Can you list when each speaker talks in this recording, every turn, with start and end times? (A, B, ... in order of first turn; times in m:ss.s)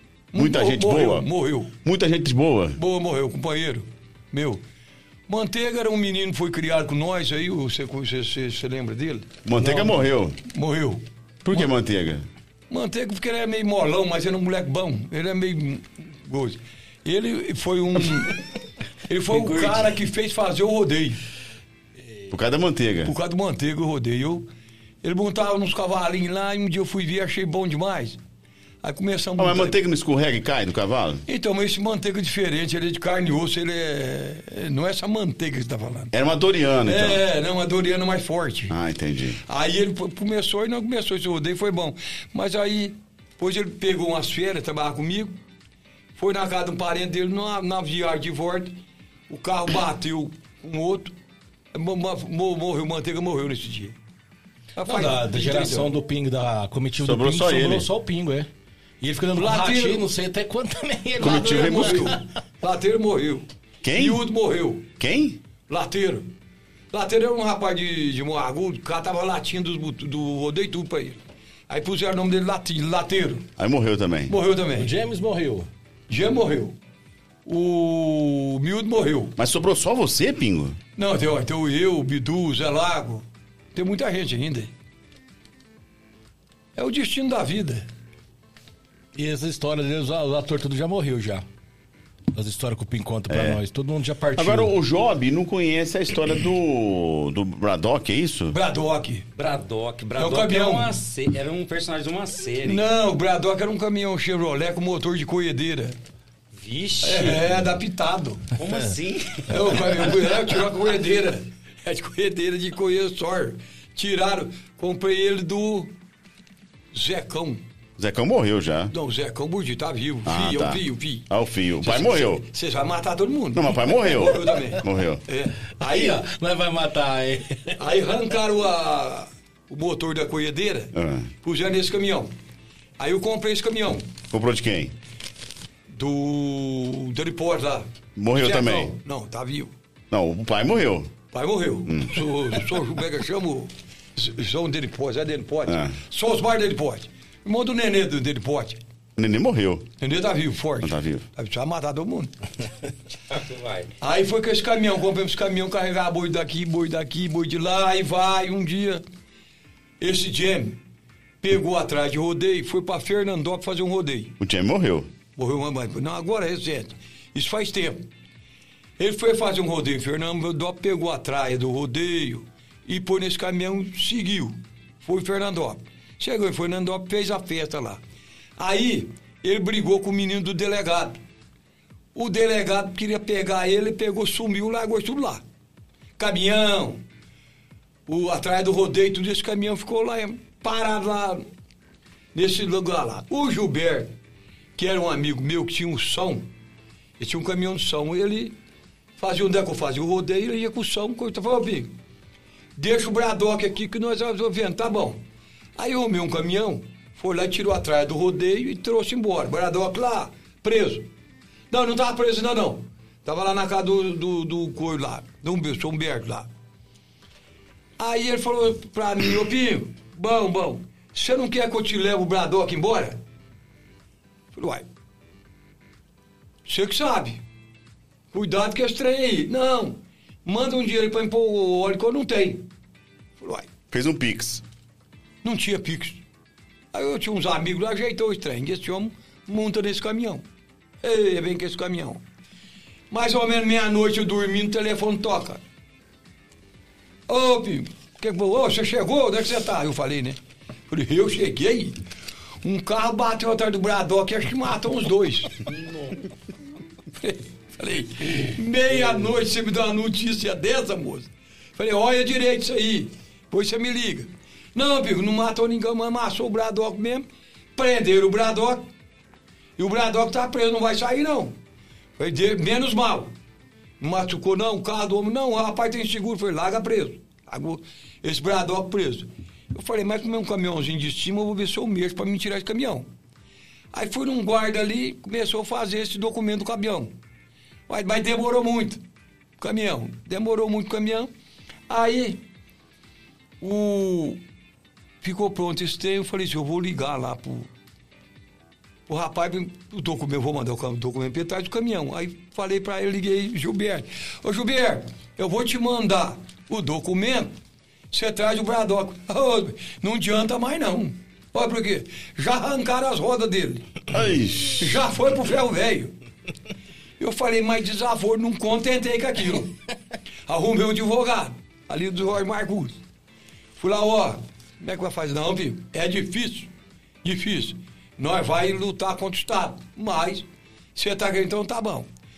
0:00.3-0:01.7 A
0:00.3-0:02.8 B
0:02.8-0:04.6 A
0:05.3-0:11.7 A
0:09.4-0:10.4 B
0:11.4-0:12.2 B
0:12.7-0:18.4 A
0:19.1-0:21.2 A
0:19.3-0:19.9 C
0:22.3-0:23.1 B
0:23.0-0:24.5 A
0:25.0-0:28.2 A
0:28.8-0:29.8 A
0:29.4-0:31.2 B
0:31.2-0:36.1 A
0:36.1-0:37.2 B
0:36.8-0:38.7 A
0:38.7-0:39.4 B
0:39.4-0:45.4 A
0:46.1-0:48.7 A
0:49.3-0:51.1 A
0:51.7-0:54.0 A
0:54.8-0:55.9 A
0:54.8-0:58.5 D
0:57.0-0:57.9 B
0:59.0-1:02.2 D
0:59.3-1:00.0 A
1:01.2-1:02.1 B
1:01.2-1:04.9 A
1:03.8-1:04.3 B
1:05.0-1:05.4 B
1:05.7-1:06.3 A
1:06.9-1:13.5 A
1:13.6-1:14.4 B
1:14.3-1:14.9 A
1:14.8-1:15.7 D
1:16.1-1:16.8 A
1:17.4-1:19.3 A
1:19.4-1:20.8 B
1:21.0-1:24.7 A
1:26.8-1:27.9 A
1:29.1-1:31.4 D
1:32.3-1:34.7 D
1:33.3-1:33.6 B
1:34.4-1:38.5 B
1:38.5-1:39.3 A
1:39.4-1:42.8 C
1:40.2-1:40.9 A
1:42.6-1:46.0 A
1:46.5-1:47.5 C
1:47.0-1:48.5 A
1:48.6-1:49.8 C
1:49.5-1:55.9 A
1:56.9-1:57.6 A
1:58.0-1:58.9 B
1:58.9-2:01.3 A
2:00.2-2:02.4 B
2:01.8-2:06.2 A
2:03.5-2:05.2 B
2:05.8-2:07.8 D
2:07.8-2:12.3 A
2:10.9-2:11.3 B
2:13.0-2:14.1 A
2:14.3-2:14.9 B
2:15.9-2:19.7 A
2:18.2-2:18.9 B
2:20.1-2:21.1 B
2:21.3-2:28.8 A
2:21.9-2:22.3 B
2:25.7-2:26.0 B
2:29.2-2:29.9 B
2:30.0-2:32.3 A
2:30.8-2:31.2 B
2:33.3-2:33.9 C
2:34.0-2:39.0 A
2:40.0-2:40.8 A
2:41.4-2:44.4 A
2:44.4-2:45.1 B
2:45.4-2:48.1 A
2:49.0-2:58.0 A
2:58.6-3:01.2 A
3:02.1-3:05.4 A
3:06.2-3:07.0 A
3:08.1-3:11.4 A
3:12.3-3:14.1 A
3:14.8-3:16.5 A
3:17.2-3:18.6 A
3:19.2-3:21.9 A
3:22.8-3:25.2 A
3:25.8-3:31.1 A
3:31.7-3:36.5 A
3:38.0-3:43.2 A
3:44.5-3:44.8 A
3:46.6-3:47.4 A
3:48.3-3:52.7 A
3:53.4-3:53.7 A
3:53.9-3:54.6 B
3:55.4-3:56.2 A
3:56.9-4:00.4 A
4:01.0-4:02.2 A
4:03.1-4:05.6 A
4:07.3-4:10.4 A
4:10.9-4:12.0 A
4:12.6-4:15.6 A
4:17.1-4:28.9 A
4:29.8-4:31.6 A
4:32.2-4:33.3 A
4:34.0-4:43.1 A
4:43.9-4:47.1 A
4:47.9-4:49.0 A
4:49.6-4:51.3 A
4:51.9-4:52.4 A
4:53.6-4:54.4 A
4:55.2-4:57.7 A
4:59.1-5:07.6 A
5:08.1-5:13.8 A
5:14.1-5:14.8 B
5:14.8-5:16.1 A
5:17.2-5:19.8 A
5:20.4-5:23.0 A
5:23.8-5:26.7 A
5:27.2-5:32.1 A